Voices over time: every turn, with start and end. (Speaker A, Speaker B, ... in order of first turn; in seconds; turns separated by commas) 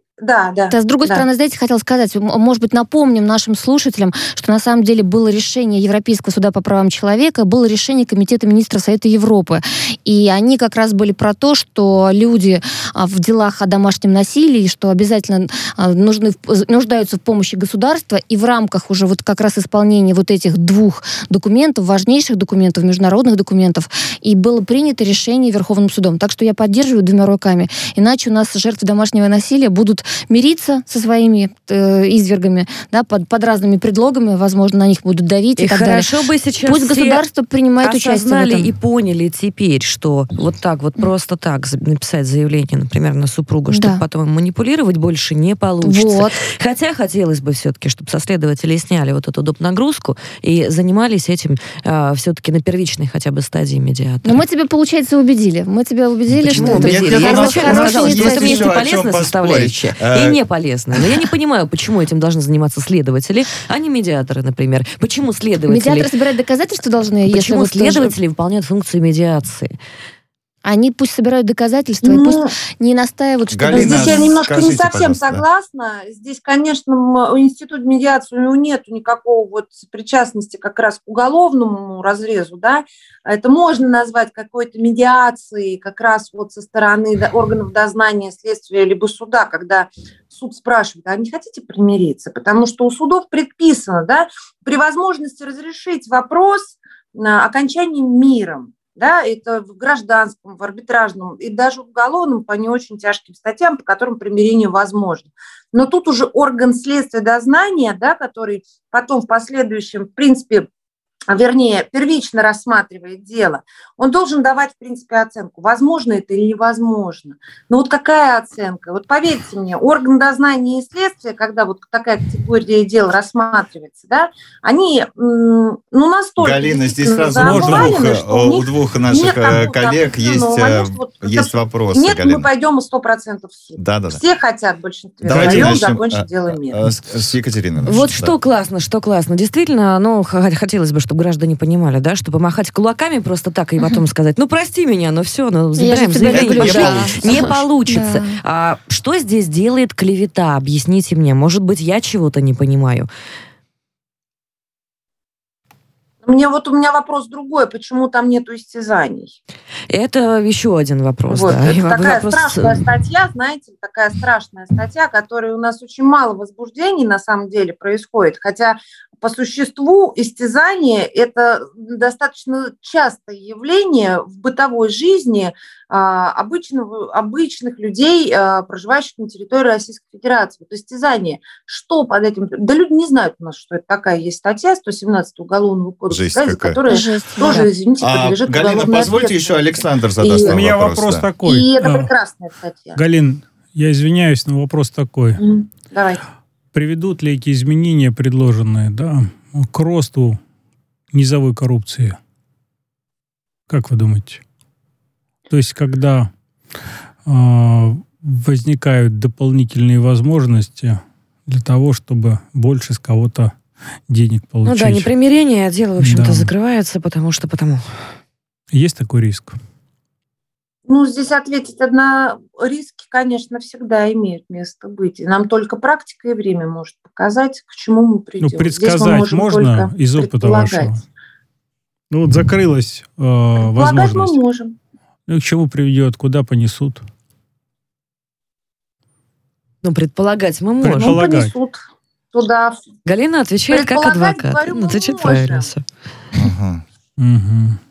Speaker A: 0.2-1.3, Speaker B: 0.7-36.1, Speaker C: 35.6-37.2, Speaker B: 36.6-38.7, Speaker C: 37.8-54.4, Speaker B: 43.7-44.0, Speaker B: 45.8-46.4, Speaker B: 54.2-58.7, Speaker C: 56.4-66.1, Speaker D: 56.6-60.4, Speaker B: 65.7-68.1, Speaker C: 67.3-69.8, Speaker B: 70.7-74.6, Speaker A: 72.0-72.6, Speaker D: 73.5-75.4, Speaker A: 73.7-110.7, Speaker A: 111.3-136.8, Speaker D: 126.4-132.5, Speaker E: 127.4-128.1, Speaker D: 133.8-134.2, Speaker D: 135.2-138.3, Speaker E: 135.3-135.8, Speaker C: 137.9-153.1, Speaker B: 145.8-148.4, Speaker D: 146.2-147.4, Speaker A: 156.2-159.4, Speaker C: 159.9-162.8, Speaker A: 161.3-190.6, Speaker D: 186.1-186.8, Speaker B: 186.9-187.7, Speaker D: 188.0-191.3, Speaker E: 190.2-192.1, Speaker A: 191.4-193.0, Speaker E: 192.9-195.4, Speaker A: 195.4-196.2, Speaker E: 196.7-200.4, Speaker E: 201.1-202.2, Speaker E: 203.7-204.4, Speaker E: 205.5-206.3, Speaker E: 207.3-213.5, Speaker E: 214.1-215.1, Speaker C: 214.7-217.9, Speaker E: 216.0-216.5, Speaker E: 218.7-219.6, Speaker A: 220.9-231.0, Speaker E: 228.4-231.0, Speaker E: 232.1-234.4, Speaker A: 233.6-234.8, Speaker E: 235.3-237.1, Speaker C: 239.8-241.2, Speaker E: 240.8-241.5, Speaker A: 241.0-242.8, Speaker C: 243.1-245.8, Speaker A: 243.7-245.7, Speaker D: 246.3-246.8, Speaker E: 247.2-247.8